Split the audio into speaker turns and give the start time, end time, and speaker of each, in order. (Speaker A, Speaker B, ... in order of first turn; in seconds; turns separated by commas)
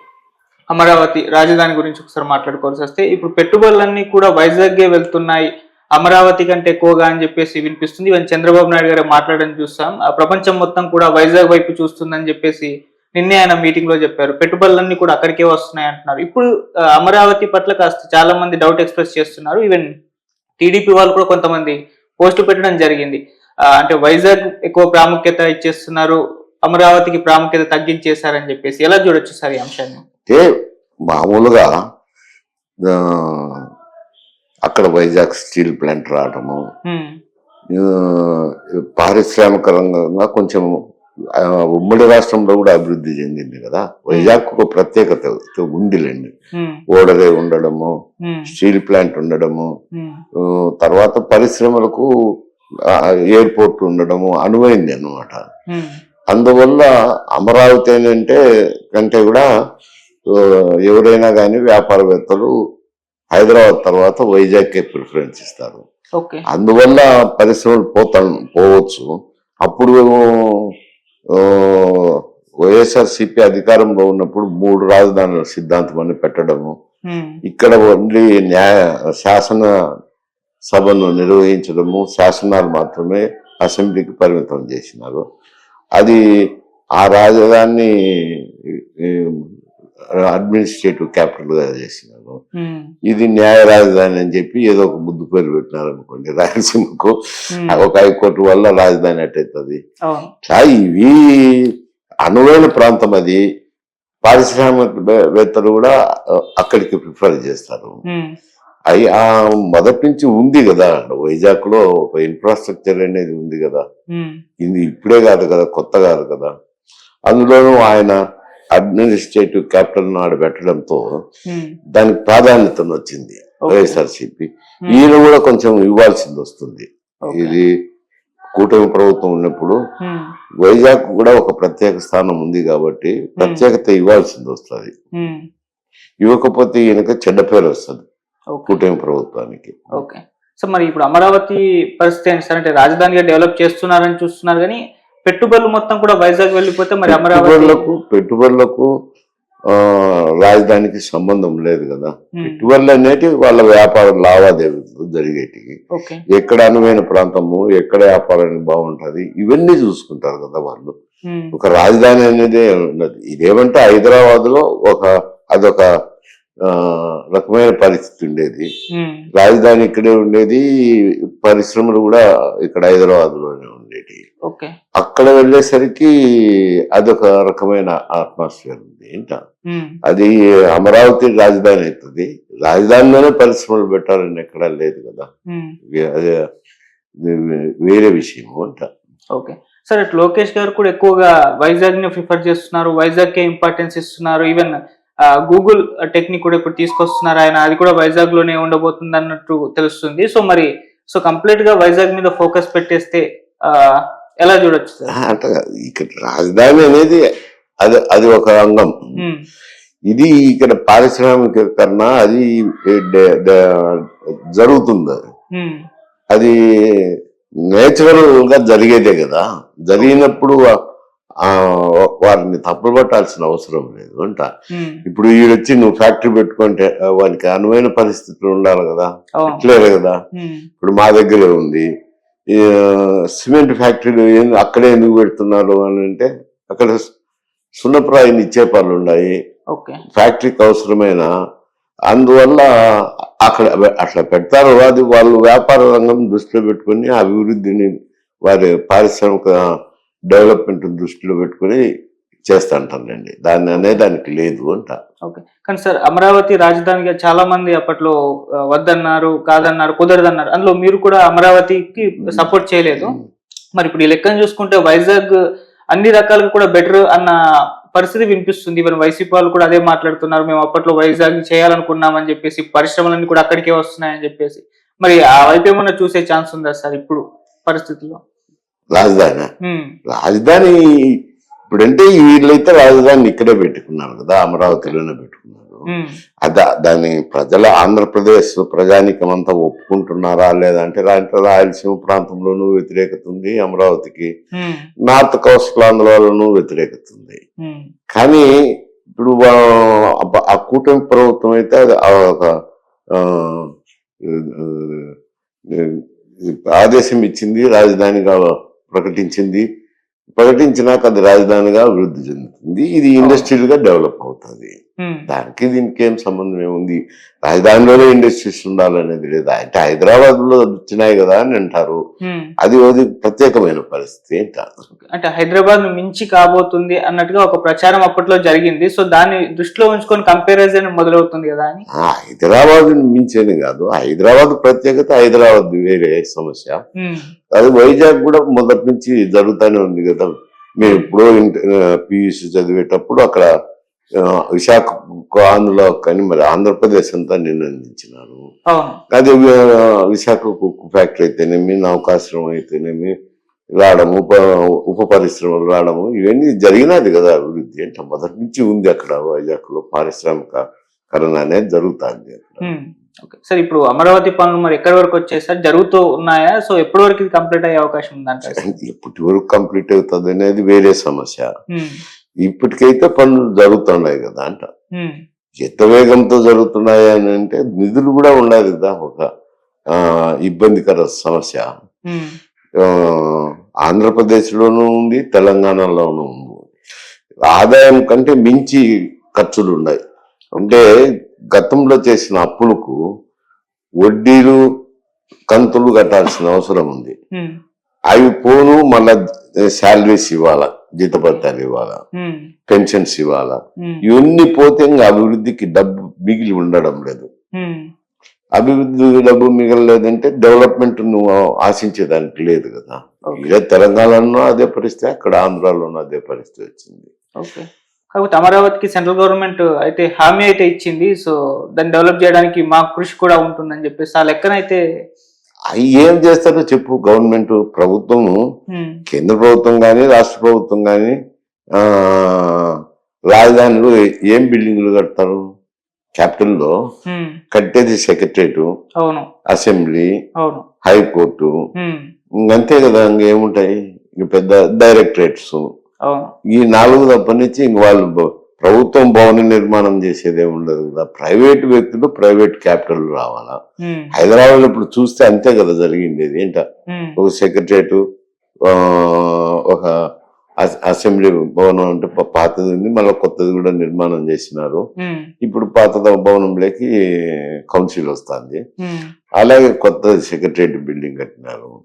Speaker A: 0.7-16.4, Speaker A: 17.0-19.9, Speaker A: 20.6-23.2, Speaker A: 23.7-30.0, Speaker B: 31.1-31.7, Speaker B: 32.9-33.6, Speaker B: 34.7-36.6, Speaker B: 37.7-40.8, Speaker B: 41.4-46.3, Speaker A: 44.1-44.4, Speaker A: 46.5-46.8, Speaker B: 46.9-47.9, Speaker A: 48.2-48.5, Speaker B: 48.5-49.7, Speaker A: 50.0-50.2, Speaker B: 50.4-52.1, Speaker B: 53.3-55.4, Speaker A: 55.7-56.0, Speaker B: 56.3-58.4, Speaker B: 58.9-59.5, Speaker B: 60.3-62.5, Speaker B: 63.3-65.8, Speaker B: 66.5-69.1, Speaker B: 69.7-70.6, Speaker B: 71.3-76.7, Speaker A: 77.1-77.4, Speaker B: 77.5-79.7, Speaker B: 80.7-85.2, Speaker B: 87.0-89.5, Speaker B: 90.3-92.4, Speaker A: 92.6-92.9, Speaker B: 93.1-97.1, Speaker B: 97.7-99.8, Speaker B: 100.5-101.7, Speaker B: 102.3-103.4, Speaker B: 104.2-105.9, Speaker B: 106.6-108.0, Speaker B: 108.9-113.8, Speaker A: 114.1-114.4, Speaker B: 114.6-116.5, Speaker B: 117.3-118.2, Speaker B: 118.8-121.0, Speaker A: 121.5-121.8, Speaker B: 122.0-127.7, Speaker A: 123.6-124.0, Speaker A: 127.2-127.6, Speaker B: 128.6-129.8, Speaker A: 130.0-130.3, Speaker B: 130.6-134.9, Speaker A: 133.4-133.7, Speaker B: 136.2-138.1, Speaker B: 138.7-140.0, Speaker A: 140.0-147.8, Speaker B: 147.1-148.9, Speaker B: 149.7-155.8, Speaker A: 152.4-152.7, Speaker A: 155.9-156.2, Speaker B: 156.3-160.9, Speaker A: 161.3-161.6, Speaker B: 161.5-165.9, Speaker B: 166.6-168.7, Speaker A: 168.9-169.3, Speaker B: 169.4-170.6, Speaker B: 171.4-174.2, Speaker B: 175.0-176.1, Speaker B: 176.9-179.4, Speaker A: 179.7-180.0, Speaker B: 180.1-185.3, Speaker B: 185.9-186.4, Speaker B: 187.2-188.8, Speaker A: 189.4-194.8, Speaker A: 195.5-205.1, Speaker B: 205.1-207.2, Speaker B: 207.8-208.9, Speaker B: 210.1-214.1, Speaker B: 214.6-215.2, Speaker B: 217.7-220.6, Speaker B: 221.4-224.5, Speaker A: 224.7-225.0, Speaker B: 225.1-230.2, Speaker A: 230.4-230.7, Speaker B: 230.8-231.9, Speaker B: 232.5-237.0, Speaker B: 237.8-239.3, Speaker A: 239.7-240.0, Speaker B: 240.1-241.3, Speaker B: 242.1-242.7, Speaker B: 243.4-247.9, Speaker B: 248.5-249.6, Speaker B: 250.3-251.8, Speaker B: 252.5-254.9, Speaker A: 253.7-254.0, Speaker A: 255.3-258.1, Speaker A: 258.7-263.1, Speaker B: 262.2-262.4, Speaker B: 263.0-263.2, Speaker A: 263.8-265.4, Speaker A: 265.9-267.3, Speaker A: 267.9-278.2, Speaker B: 278.9-279.5, Speaker A: 279.6-279.9, Speaker B: 280.1-280.8, Speaker B: 281.7-285.9, Speaker B: 286.4-294.3, Speaker A: 294.6-294.9, Speaker B: 295.1-297.4, Speaker A: 297.6-297.9, Speaker B: 298.1-298.5, Speaker B: 299.2-302.5, Speaker B: 303.1-303.7, Speaker B: 304.2-305.1, Speaker B: 305.7-309.6, Speaker B: 310.4-314.7, Speaker A: 313.2-313.5, Speaker A: 315.0-315.3, Speaker B: 315.3-322.0, Speaker A: 322.2-322.5, Speaker B: 322.6-324.7, Speaker A: 324.9-331.8, Speaker B: 332.0-336.8, Speaker A: 337.0-337.3, Speaker B: 337.6-340.3, Speaker B: 340.8-343.5, Speaker A: 340.9-341.1, Speaker B: 344.2-348.4, Speaker A: 348.7-349.0, Speaker B: 349.1-353.1, Speaker B: 353.8-360.6, Speaker B: 361.1-362.6, Speaker A: 362.6-368.6, Speaker B: 368.6-371.5, Speaker A: 371.7-372.0, Speaker B: 372.4-374.7, Speaker B: 375.6-379.3, Speaker B: 379.9-381.7, Speaker A: 382.1-382.4, Speaker B: 382.8-386.6, Speaker B: 387.5-388.8, Speaker B: 389.4-390.0, Speaker B: 390.6-390.9, Speaker B: 391.5-393.0, Speaker B: 394.0-394.6, Speaker B: 395.5-397.1, Speaker B: 398.1-402.0, Speaker A: 402.2-402.5, Speaker B: 402.7-407.3, Speaker A: 407.6-407.8, Speaker B: 408.6-417.1, Speaker A: 417.4-424.8, Speaker B: 425.7-428.4, Speaker A: 428.7-429.0, Speaker B: 429.1-431.1, Speaker B: 431.8-432.8, Speaker B: 433.3-435.4, Speaker B: 436.2-436.7, Speaker A: 437.1-437.4, Speaker B: 437.5-438.7, Speaker A: 439.0-439.3, Speaker B: 439.5-440.1, Speaker B: 440.8-441.5, Speaker A: 441.8-442.0, Speaker B: 442.4-445.7, Speaker B: 446.5-453.6, Speaker A: 453.8-454.1, Speaker B: 454.1-456.6, Speaker A: 456.9-457.2, Speaker B: 457.2-458.0, Speaker B: 458.7-459.9, Speaker B: 460.6-464.8, Speaker A: 465.0-465.3, Speaker B: 465.4-468.6, Speaker A: 468.8-469.1, Speaker B: 469.4-471.7